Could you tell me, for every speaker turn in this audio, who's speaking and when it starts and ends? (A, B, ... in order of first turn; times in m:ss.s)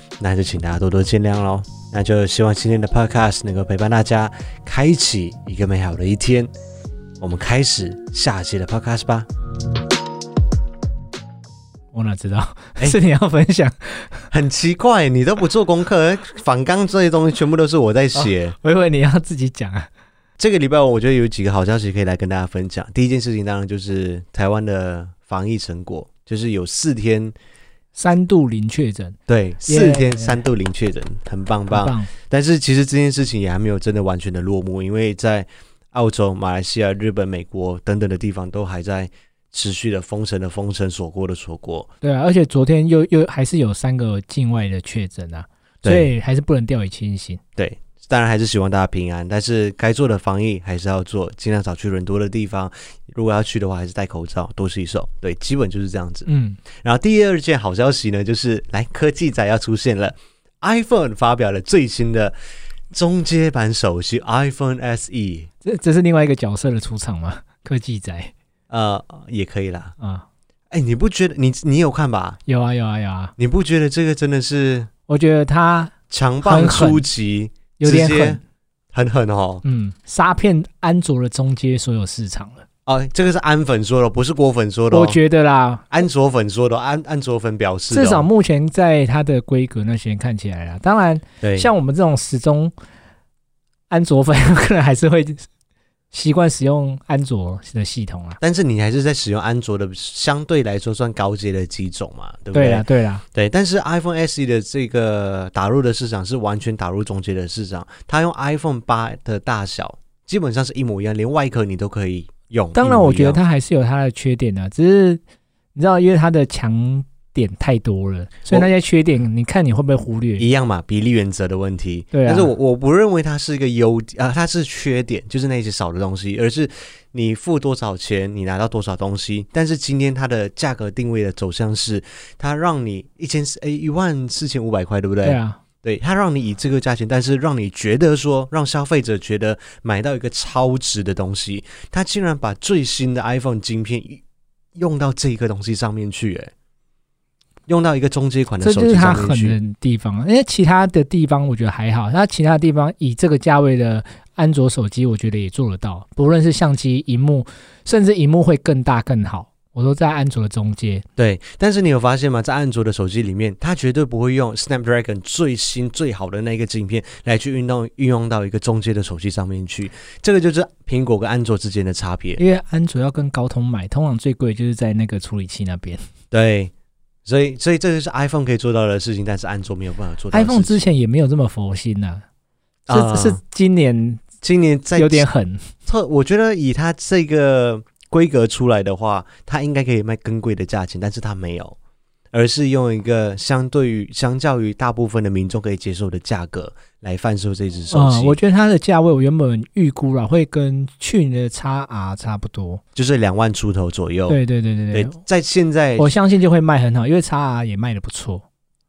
0:00.2-0:06.5 A
0:07.2-0:09.3 A
0:11.9-0:14.3 B
0:14.3-0:18.6 A
0:18.2-0:19.9 B
0:20.4-0:27.4 A
0:28.0-0:30.4 B
0:29.3-0:41.9 A
0:31.7-0:32.1 B
0:42.0-0:47.4 B
0:45.8-0:46.1 A
0:47.6-0:56.3 A
0:56.3-0:56.6 B
0:56.8-1:02.4 A
1:02.9-1:05.5 A
1:05.6-1:08.3 B
1:08.7-1:09.9 A
1:10.0-1:10.3 B
1:10.7-1:12.4 A
1:12.4-1:13.3 B
1:13.4-1:14.9 A
1:15.1-1:17.0 B
1:16.1-1:18.4 A
1:17.8-1:18.4 B
1:18.9-1:19.6 A
1:19.6-1:22.6 B
1:22.9-1:25.2 A
1:24.9-1:25.8 B
1:25.9-1:28.3 A
1:27.9-1:32.7 B
1:31.4-1:31.7 A
1:33.9-1:35.4 B
1:36.1-1:38.4 B
1:38.4-1:53.4 A
1:42.5-1:43.2 B
1:52.7-1:55.2 B
1:55.7-2:00.4 B
2:00.4-2:24.2 A
2:02.1-2:02.5 B
2:15.2-2:15.6 B
2:24.8-2:26.5 A
2:27.7-2:29.6 A
2:28.6-2:41.0 B
2:41.2-2:52.4 A
2:52.4-2:56.0 B
2:56.3-2:56.7 A
2:57.2-3:00.8 A
3:00.3-3:02.2 B
3:02.9-3:03.4 A
3:02.9-3:04.2 B
3:04.4-3:05.3 A
3:05.0-3:05.7 B
3:05.9-3:11.8 A
3:12.3-3:18.4 A
3:17.9-3:22.8 B
3:22.9-3:24.4 A
3:24.3-3:25.2 B
3:24.9-3:26.1 A
3:26.0-3:28.4 B